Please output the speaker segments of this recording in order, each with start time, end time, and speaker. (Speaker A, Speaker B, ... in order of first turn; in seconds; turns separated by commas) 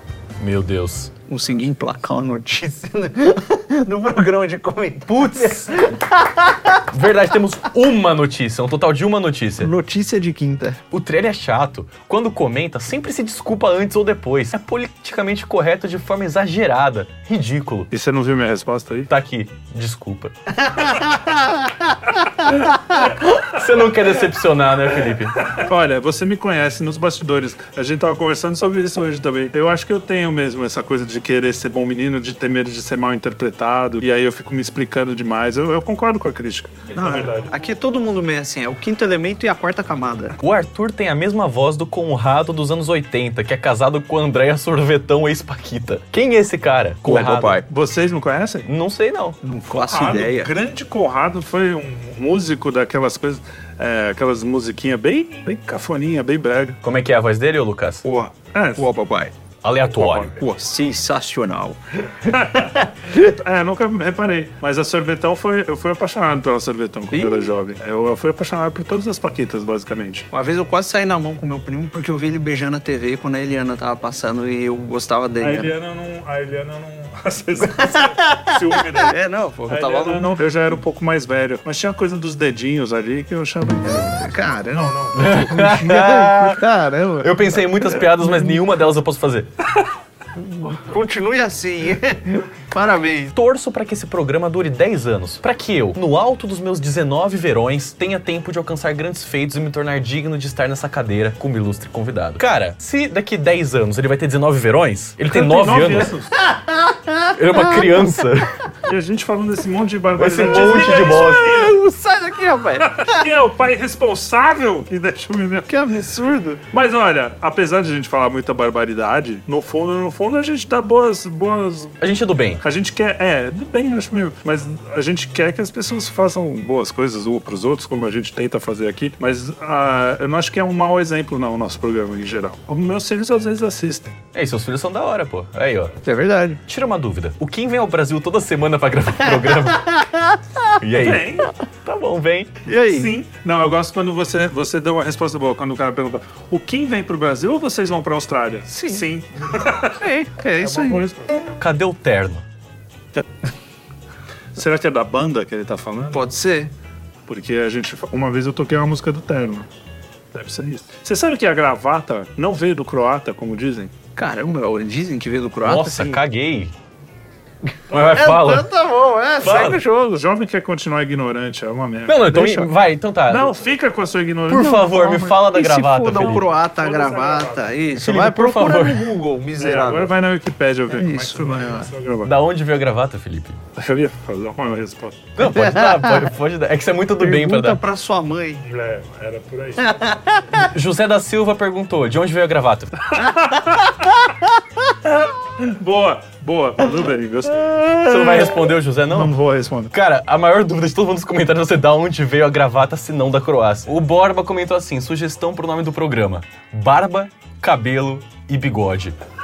Speaker A: 0.4-1.1, Speaker B: 1.3-6.8, Speaker A: 5.3-5.6, Speaker A: 6.9-9.7, Speaker B: 9.6-10.8, Speaker A: 10.9-17.9, Speaker C: 17.9-19.1, Speaker A: 19.1-20.3, Speaker B: 20.6-23.2, Speaker A: 23.0-25.4, Speaker C: 25.4-37.5, Speaker B: 36.9-40.4, Speaker A: 40.4-47.6, Speaker C: 47.0-48.7, Speaker A: 48.7-49.4, Speaker B: 49.4-50.5, Speaker C: 49.9-56.8, Speaker A: 56.8-58.0, Speaker B: 58.0-59.3, Speaker C: 58.5-58.9, Speaker A: 59.6-60.4, Speaker C: 60.0-60.4, Speaker B: 60.2-63.3, Speaker C: 62.3-70.3, Speaker B: 67.1-67.5, Speaker B: 70.3-75.7, Speaker C: 75.4-79.2, Speaker B: 77.7-80.4, Speaker C: 79.7-85.3, Speaker B: 83.8-88.2, Speaker A: 85.1-86.7, Speaker A: 87.2-89.5, Speaker B: 90.4-93.3, Speaker A: 93.3-106.1, Speaker C: 105.2-106.4, Speaker B: 106.4-108.1, Speaker A: 107.3-108.5, Speaker C: 108.8-111.7, Speaker A: 110.2-111.5, Speaker B: 110.4-113.3, Speaker C: 112.8-115.7, Speaker B: 115.7-116.6, Speaker C: 116.7-122.0, Speaker A: 122.0-122.6, Speaker C: 122.6-134.2, Speaker A: 134.3-136.0, Speaker B: 136.0-136.6, Speaker A: 136.7-139.9, Speaker B: 139.3-140.8, Speaker A: 140.8-142.6, Speaker C: 140.9-141.5, Speaker B: 142.7-143.2, Speaker C: 142.8-150.1, Speaker B: 148.7-149.1, Speaker B: 150.0-151.0, Speaker C: 150.6-151.4, Speaker A: 151.6-152.4, Speaker C: 154.5-156.2, Speaker B: 156.1-156.7, Speaker C: 157.3-159.7, Speaker C: 160.3-163.9, Speaker B: 164.2-166.2, Speaker A: 165.6-166.7, Speaker A: 167.9-168.7, Speaker B: 167.9-170.2, Speaker C: 169.4-172.7, Speaker A: 169.5-169.8, Speaker A: 172.1-173.6, Speaker C: 173.3-174.8, Speaker A: 174.5-176.5, Speaker B: 174.5-180.1, Speaker C: 176.7-177.8, Speaker A: 177.9-179.1, Speaker C: 179.6-182.3, Speaker B: 180.9-181.9, Speaker A: 182.2-183.6, Speaker C: 183.8-185.3, Speaker A: 185.3-187.8, Speaker B: 185.4-186.3, Speaker B: 187.2-188.6, Speaker C: 188.6-190.0, Speaker B: 189.8-190.7, Speaker A: 190.5-193.1, Speaker C: 193.1-193.9, Speaker B: 193.5-194.1, Speaker C: 195.0-199.9, Speaker B: 197.6-198.4, Speaker A: 198.0-199.3, Speaker A: 199.9-209.1